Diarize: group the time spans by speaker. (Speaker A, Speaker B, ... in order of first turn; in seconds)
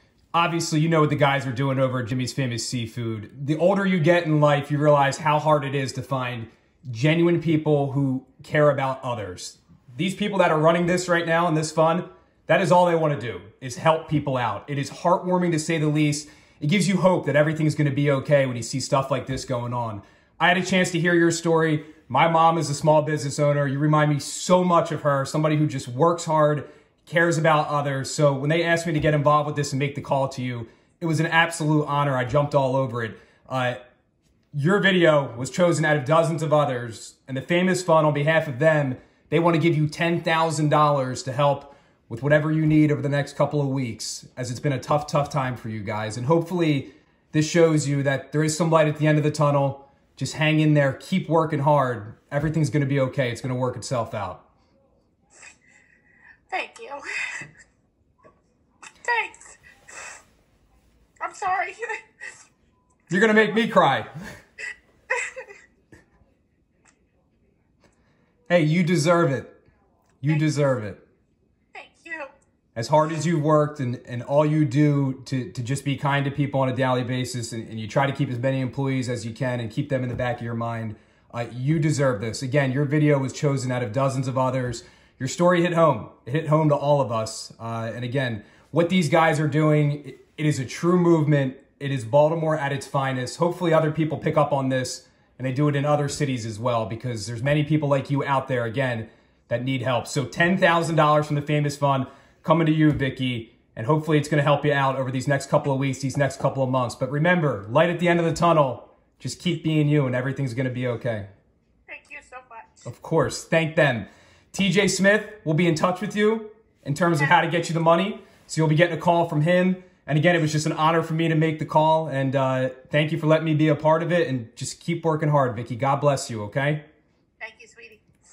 Speaker A: 0.3-33.8, 34.5-54.4, 63.1-64.1, 68.5-69.5, 70.2-71.0, 72.7-111.3, 112.8-126.8
Speaker B: 56.5-57.5, 59.0-59.6, 61.2-62.0, 65.1-65.5, 71.7-72.3, 111.9-112.8, 127.4-128.0